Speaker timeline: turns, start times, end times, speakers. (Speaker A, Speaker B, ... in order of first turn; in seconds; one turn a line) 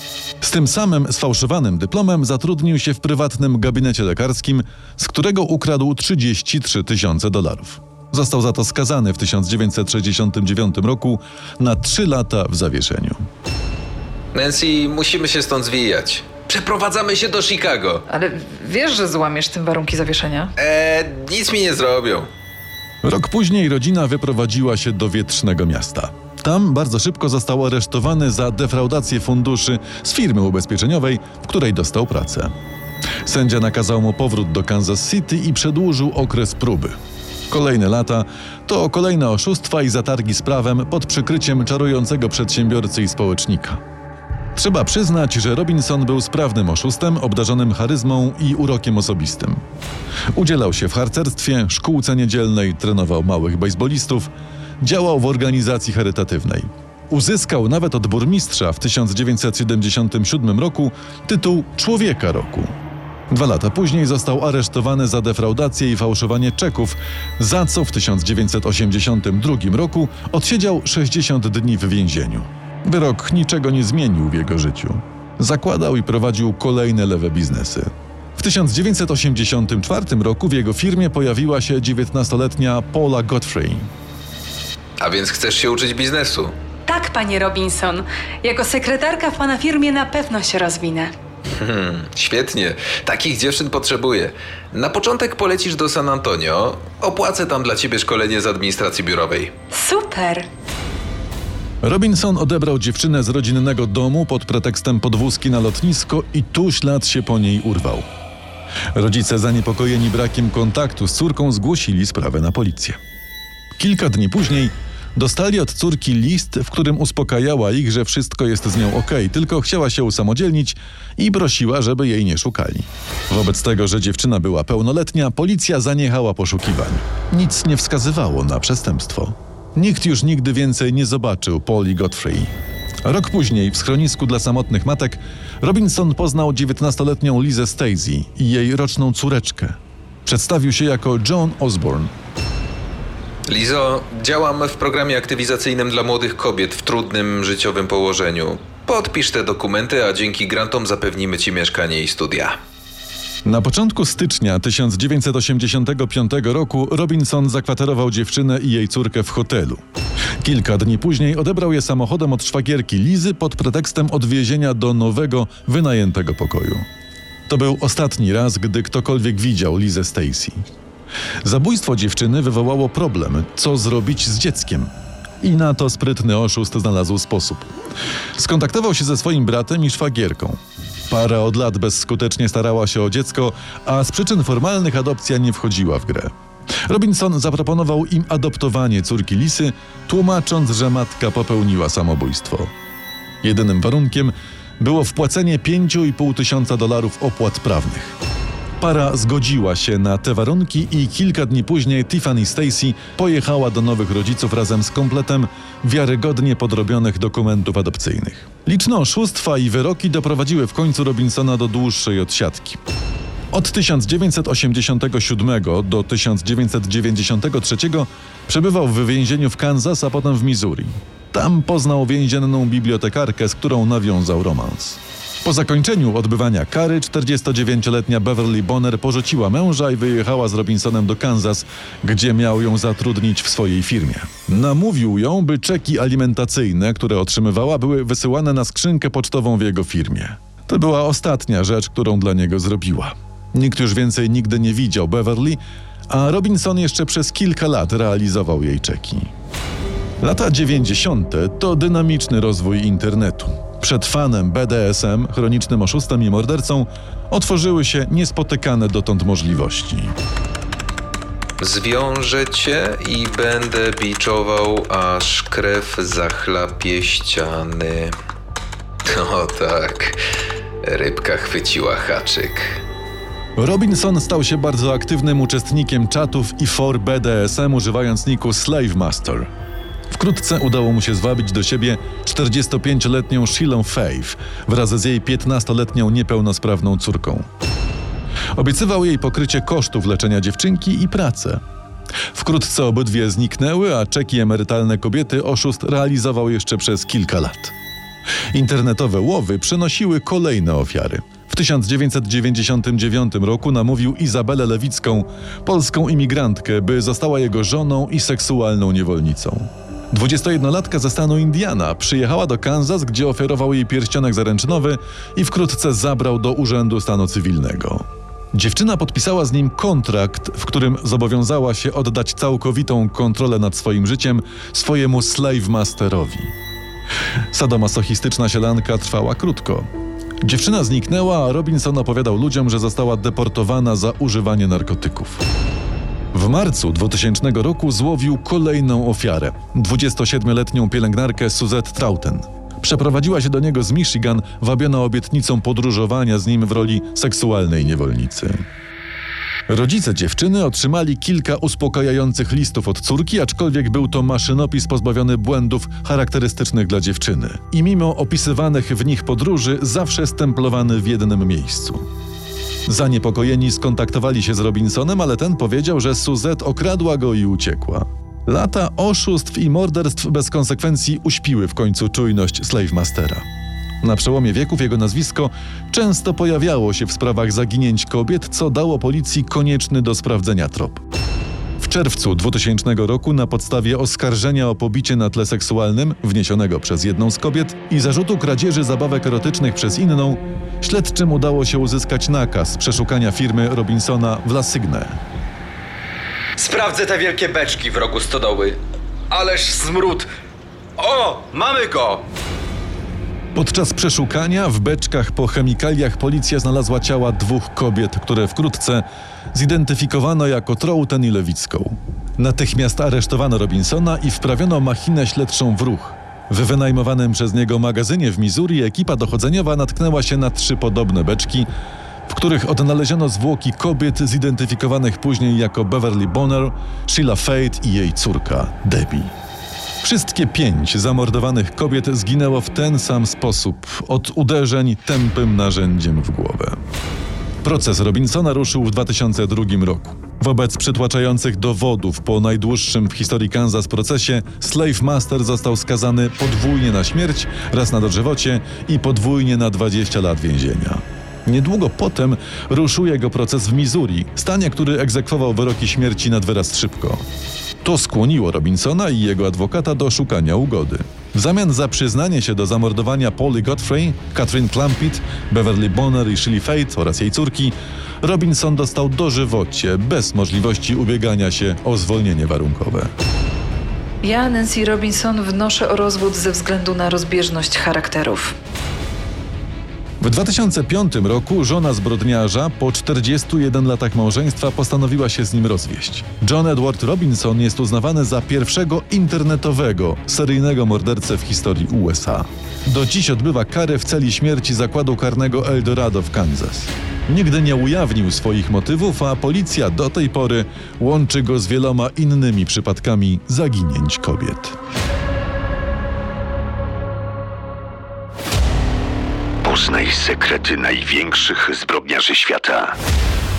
Speaker A: 0.4-13.2
Speaker B: 14.3-18.1
Speaker C: 18.1-20.5
Speaker B: 20.6-22.3
Speaker A: 23.0-32.5
Speaker A: 33.2-37.0
Speaker A: 37.5-43.8
Speaker A: 44.5-49.6
Speaker A: 50.3-62.7
Speaker A: 63.3-83.9
Speaker B: 85.0-86.5
Speaker D: 86.9-91.1
Speaker B: 91.6-99.5
Speaker D: 99.7-100.5
Speaker A: 101.8-108.1
Speaker A: 108.9-113.0
Speaker A: 113.8-132.5
Speaker A: 133.1-142.1
Speaker B: 143.5-152.6
Speaker A: 153.4-159.8
Speaker A: 160.4-166.8
Speaker A: 167.5-170.6
Speaker A: 171.4-174.9
Speaker A: 175.4-177.7
Speaker A: 178.4-180.6
Speaker A: 181.1-186.3
Speaker A: 186.9-192.7
Speaker A: 193.4-198.2
Speaker A: 198.8-212.8
Speaker A: 213.5-249.3
Speaker A: 250.2-260.1
Speaker B: 261.6-268.1
Speaker B: 269.1-270.2
Speaker B: 270.9-272.8
Speaker A: 273.6-279.5
Speaker A: 280.1-287.4
Speaker A: 288.6-291.6
Speaker A: 292.3-297.8
Speaker A: 298.5-326.5
Speaker A: 327.5-329.9
Speaker A: 330.4-335.4
Speaker A: 336.3-348.6
Speaker A: 349.7-362.0
Speaker A: 362.9-373.4
Speaker A: 374.0-381.0
Speaker A: 381.8-395.2
Speaker E: 396.6-398.8
Speaker E: 399.3-400.3
Speaker E: 401.0-402.2
Speaker A: 403.6-421.7
Speaker A: 422.3-429.3
Speaker A: 430.0-436.8
Speaker A: 437.6-457.2
Speaker A: 457.8-473.1
Speaker C: 474.2-478.6
Speaker A: 480.2-504.8
Speaker F: 509.6-513.0